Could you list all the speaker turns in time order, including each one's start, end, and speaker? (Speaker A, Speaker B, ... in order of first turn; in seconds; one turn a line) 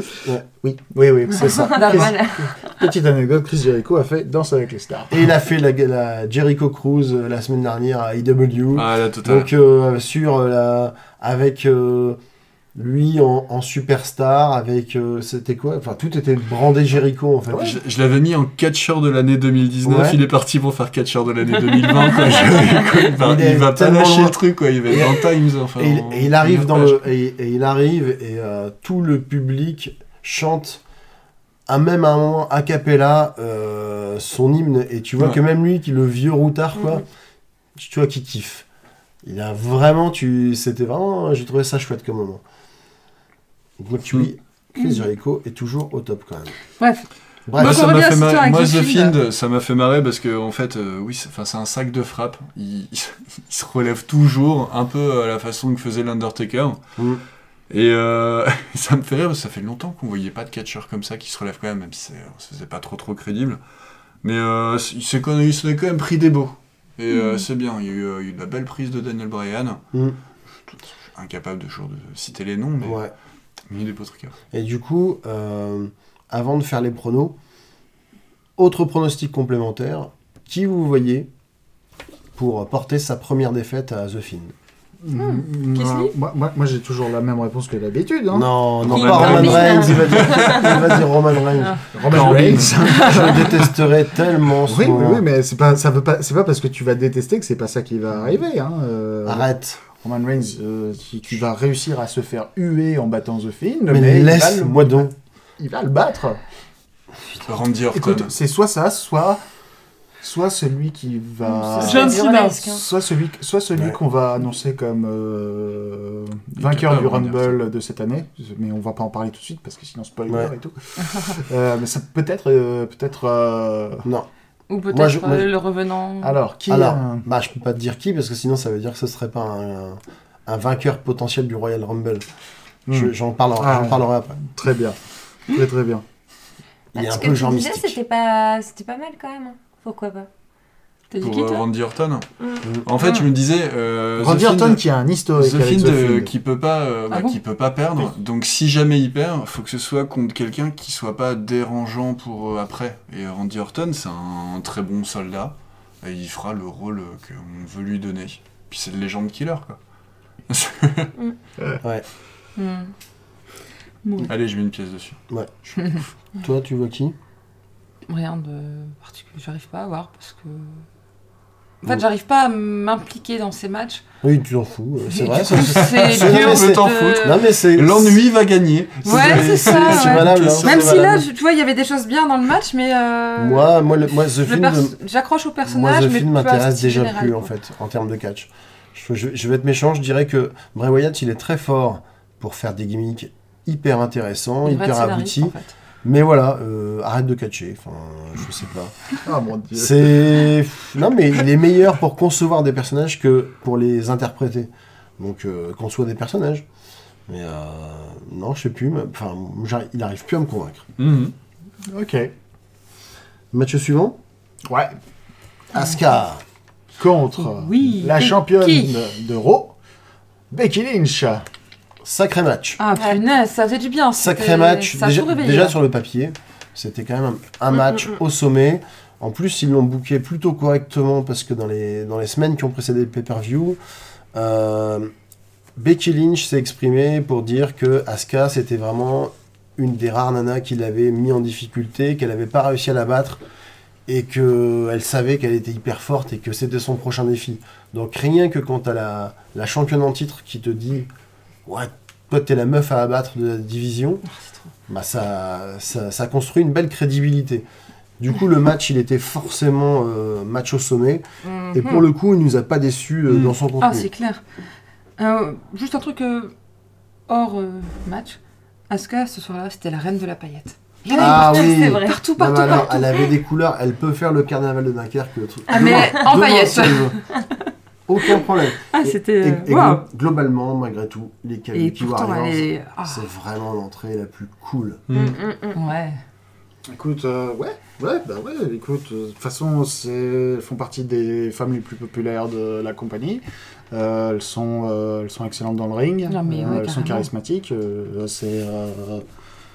Speaker A: 0.6-5.2
Speaker B: 1.4-2.2
Speaker C: 1.7-2.4
Speaker D: 5.1-12.2
Speaker E: 8.7-9.5
Speaker D: 12.7-17.8
Speaker E: 17.6-27.0
Speaker D: 19.8-20.2
Speaker D: 23.2-25.2
Speaker D: 25.8-30.8
Speaker D: 31.7-37.0
Speaker D: 37.8-38.6
Speaker D: 39.2-42.4
Speaker D: 43.8-46.5
Speaker C: 46.8-49.1
Speaker D: 47.5-47.9
Speaker E: 47.6-56.8
Speaker E: 57.7-63.6
Speaker E: 64.2-69.8
Speaker C: 67.1-67.4
Speaker E: 70.7-73.0
Speaker D: 72.8-73.1
Speaker E: 73.7-74.3
Speaker D: 74.5-77.3
Speaker D: 78.6-81.3
Speaker D: 82.3-84.5
Speaker A: 85.0-88.5
Speaker C: 85.2-86.1
Speaker D: 88.3-95.2
Speaker E: 88.8-90.8
Speaker B: 89.0-90.8
Speaker C: 89.2-90.7
Speaker A: 91.9-93.7
Speaker E: 92.0-93.3
Speaker C: 92.8-93.3
Speaker A: 94.7-106.4
Speaker D: 99.2-99.8
Speaker D: 103.9-105.1
Speaker E: 107.4-108.3
Speaker A: 107.9-109.4
Speaker A: 110.2-124.1
Speaker B: 111.5-112.8
Speaker C: 111.8-112.7
Speaker E: 116.6-117.6
Speaker C: 124.7-126.4
Speaker D: 124.9-125.5
Speaker A: 126.2-127.2
Speaker D: 126.7-132.2
Speaker A: 132.9-135.0
Speaker D: 132.9-134.4
Speaker A: 135.5-136.0
Speaker D: 136.9-138.0
Speaker B: 136.9-140.3
Speaker C: 141.1-141.6
Speaker E: 141.2-142.2
Speaker E: 142.8-144.8
Speaker C: 143.0-143.3
Speaker A: 144.2-146.3
Speaker E: 145.3-159.8
Speaker C: 147.1-147.4
Speaker E: 160.5-161.1
Speaker C: 162.6-162.9
Speaker E: 164.2-165.2
Speaker D: 166.4-167.2
Speaker C: 168.1-170.8
Speaker C: 171.8-174.0
Speaker D: 174.2-178.2
Speaker C: 175.1-177.4
Speaker E: 175.5-181.0
Speaker C: 179.0-187.5
Speaker D: 179.0-181.2
Speaker D: 183.4-184.9
Speaker D: 185.6-198.9
Speaker C: 194.6-195.7
Speaker A: 199.2-200.4
Speaker D: 199.7-206.6
Speaker D: 207.3-210.8
Speaker E: 211.0-211.3
Speaker A: 211.8-212.3
Speaker D: 213.5-214.2
Speaker A: 214.7-214.9
Speaker D: 215.7-216.4
Speaker A: 217.0-219.7
Speaker C: 217.4-218.9
Speaker A: 220.5-221.4
Speaker D: 222.0-222.8
Speaker C: 222.8-225.8
Speaker B: 222.9-223.2
Speaker D: 224.2-233.8
Speaker B: 227.7-228.1
Speaker D: 234.3-235.1
Speaker D: 235.8-243.4
Speaker D: 244.1-251.1
Speaker D: 251.7-254.2
Speaker C: 254.3-254.7
Speaker D: 254.9-257.6
Speaker D: 258.2-264.1
Speaker C: 261.4-262.1
Speaker C: 263.8-264.4
Speaker C: 265.2-266.5
Speaker C: 267.3-268.4
Speaker C: 268.9-273.3
Speaker B: 271.1-272.2
Speaker D: 271.1-277.1
Speaker C: 275.7-277.1
Speaker B: 275.7-276.2
Speaker D: 278.1-285.0
Speaker C: 278.9-280.0
Speaker C: 281.7-283.2
Speaker E: 285.1-285.4
Speaker B: 285.1-285.8
Speaker C: 285.7-286.2
Speaker A: 286.9-299.2
Speaker C: 296.3-297.3